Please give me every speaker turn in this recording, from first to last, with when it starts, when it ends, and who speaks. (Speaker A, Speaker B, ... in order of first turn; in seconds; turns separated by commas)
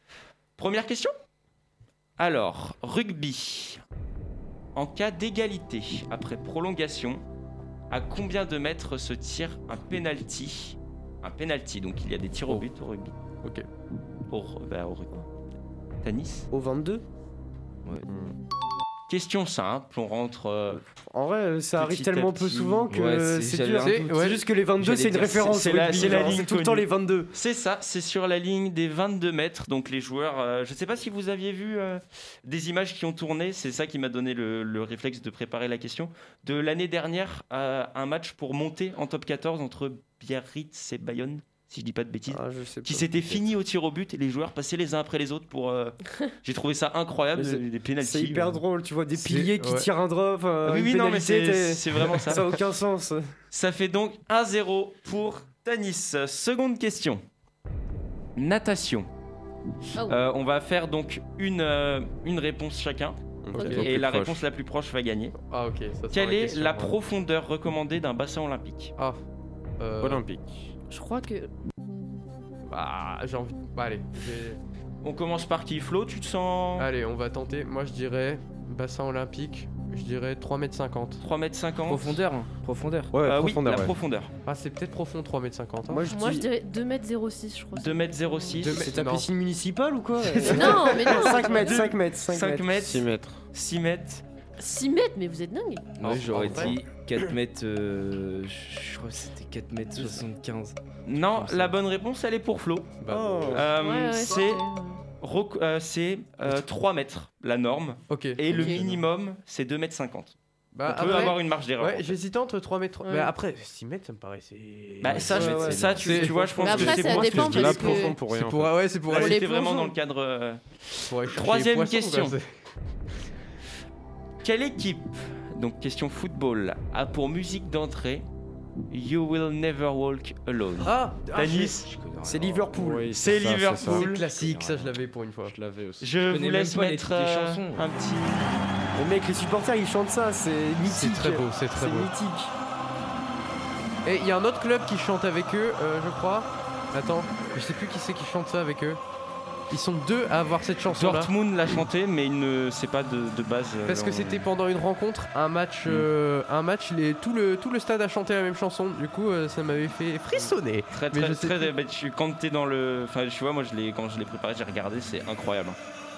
Speaker A: 0.6-1.1, Speaker A: 2.2-3.8, Speaker A: 4.8-7.2, Speaker A: 7.9-13.1, Speaker A: 14.3-15.3, Speaker A: 16.0-16.5, Speaker B: 16.5-17.0, Speaker C: 18.1-18.3, Speaker A: 19.1-20.8, Speaker B: 20.8-27.3, Speaker A: 21.8-22.9, Speaker D: 22.9-26.4, Speaker E: 23.8-24.4, Speaker A: 25.5-48.6, Speaker B: 42.3-43.4, Speaker B: 47.4-53.3, Speaker E: 49.1-49.9, Speaker A: 50.6-52.6, Speaker A: 53.5-57.2, Speaker A: 58.4-59.1, Speaker F: 60.0-60.2, Speaker A: 60.1-65.3, Speaker C: 63.4-64.4, Speaker F: 63.5-63.9, Speaker E: 63.5-63.9, Speaker E: 65.4-67.0, Speaker A: 66.1-68.9, Speaker E: 69.8-70.2, Speaker C: 70.0-70.7, Speaker F: 70.9-71.5, Speaker E: 72.7-74.6, Speaker A: 75.0-76.9, Speaker E: 76.8-81.2, Speaker A: 81.2-82.2, Speaker D: 81.9-83.1, Speaker C: 83.1-84.0, Speaker A: 83.2-84.3, Speaker E: 84.5-86.0, Speaker B: 85.9-86.5, Speaker F: 86.1-88.6, Speaker A: 87.8-88.9, Speaker E: 88.5-89.3, Speaker B: 88.8-92.7, Speaker F: 90.5-91.9, Speaker E: 90.6-91.4, Speaker A: 91.5-94.2, Speaker C: 92.8-93.5, Speaker F: 94.6-95.9, Speaker D: 96.0-101.8, Speaker E: 96.0-96.8, Speaker A: 101.1-103.0, Speaker E: 103.0-103.6, Speaker B: 103.1-103.7, Speaker A: 103.5-104.6, Speaker F: 103.8-105.0, Speaker A: 105.2-112.2, Speaker E: 108.1-108.7, Speaker F: 108.5-108.8, Speaker E: 110.8-116.4, Speaker F: 113.0-113.3, Speaker A: 115.0-117.9, Speaker D: 115.0-116.3, Speaker B: 115.3-117.0, Speaker F: 116.6-118.2, Speaker C: 116.8-118.7, Speaker E: 117.6-119.4, Speaker A: 119.1-122.4, Speaker F: 119.1-119.9, Speaker E: 121.1-122.5, Speaker A: 124.4-128.3, Speaker A: 128.9-131.9, Speaker E: 130.8-131.8, Speaker D: 131.7-132.7, Speaker B: 132.2-133.2, Speaker C: 132.7-134.1, Speaker A: 133.1-134.2, Speaker E: 133.8-135.6, Speaker D: 134.1-135.0, Speaker C: 135.5-136.1, Speaker A: 136.0-138.6, Speaker D: 136.3-137.8, Speaker B: 138.9-142.5, Speaker E: 140.8-142.1, Speaker E: 144.1-149.0, Speaker E: 149.7-151.3, Speaker A: 150.9-154.5, Speaker E: 153.9-161.7, Speaker A: 160.4-165.8